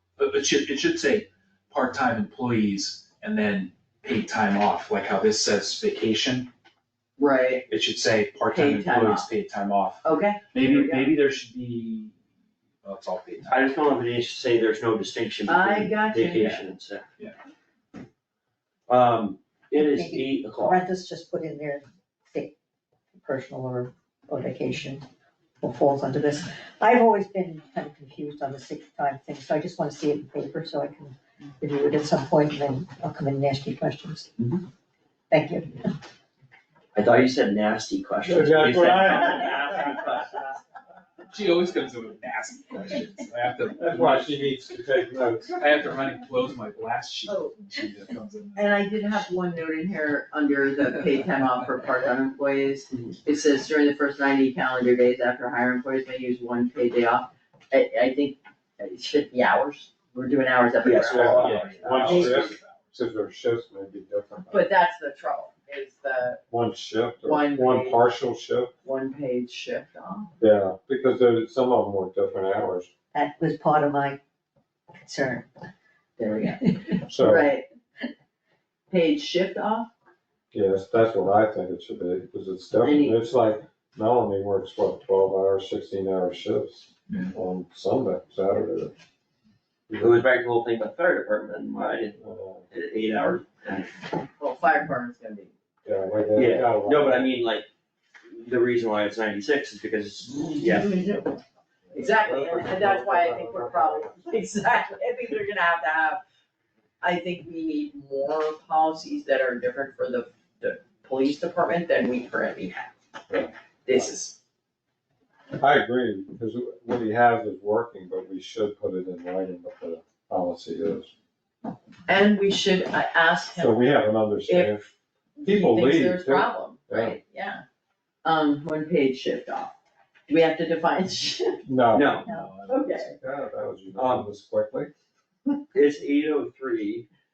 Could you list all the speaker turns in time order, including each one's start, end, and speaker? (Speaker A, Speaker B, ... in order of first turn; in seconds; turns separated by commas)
Speaker A: 0.2-6.5, Speaker B: 7.2-7.7, Speaker A: 7.7-10.0, Speaker B: 8.5-9.3, Speaker B: 10.0-11.1, Speaker A: 10.5-12.1, Speaker A: 12.8-13.6, Speaker C: 13.5-17.1, Speaker B: 15.4-16.6, Speaker C: 18.9-20.8, Speaker D: 19.7-22.5, Speaker D: 23.1-25.1, Speaker D: 25.6-34.3, Speaker D: 35.3-35.9, Speaker C: 36.9-40.5, Speaker E: 38.2-40.4, Speaker A: 41.3-44.5, Speaker E: 43.8-45.6, Speaker A: 45.5-48.7, Speaker B: 47.3-47.7, Speaker B: 48.5-62.3, Speaker A: 51.1-51.6, Speaker C: 60.8-62.5, Speaker E: 61.1-64.7, Speaker A: 61.4-63.0, Speaker B: 64.5-66.4, Speaker E: 66.5-68.7, Speaker B: 67.2-68.0, Speaker B: 68.8-70.3, Speaker E: 70.4-72.9, Speaker D: 73.1-74.2, Speaker D: 74.9-75.5, Speaker B: 76.2-77.6, Speaker D: 76.4-77.0, Speaker E: 77.1-77.5, Speaker B: 78.9-79.9, Speaker E: 80.5-88.9, Speaker B: 82.8-83.2, Speaker A: 87.1-87.3, Speaker E: 89.9-90.2, Speaker C: 90.0-92.2, Speaker E: 92.2-92.7, Speaker C: 92.7-94.0, Speaker B: 94.4-95.5, Speaker E: 95.8-97.3, Speaker C: 96.3-97.7, Speaker C: 98.2-100.9, Speaker B: 100.6-101.4, Speaker E: 101.9-104.3, Speaker B: 101.9-106.2, Speaker C: 102.4-102.9, Speaker B: 107.0-112.9, Speaker E: 113.3-114.1, Speaker B: 113.8-114.3, Speaker E: 115.6-121.1, Speaker B: 122.1-123.8, Speaker E: 123.5-127.2, Speaker B: 124.5-124.7, Speaker B: 125.4-127.6, Speaker B: 128.2-129.8, Speaker B: 130.3-131.6, Speaker E: 131.6-132.2, Speaker C: 131.9-132.3, Speaker D: 132.2-132.5, Speaker A: 132.2-132.9, Speaker B: 132.7-133.1, Speaker E: 132.7-134.9, Speaker C: 133.9-134.3, Speaker C: 135.7-137.1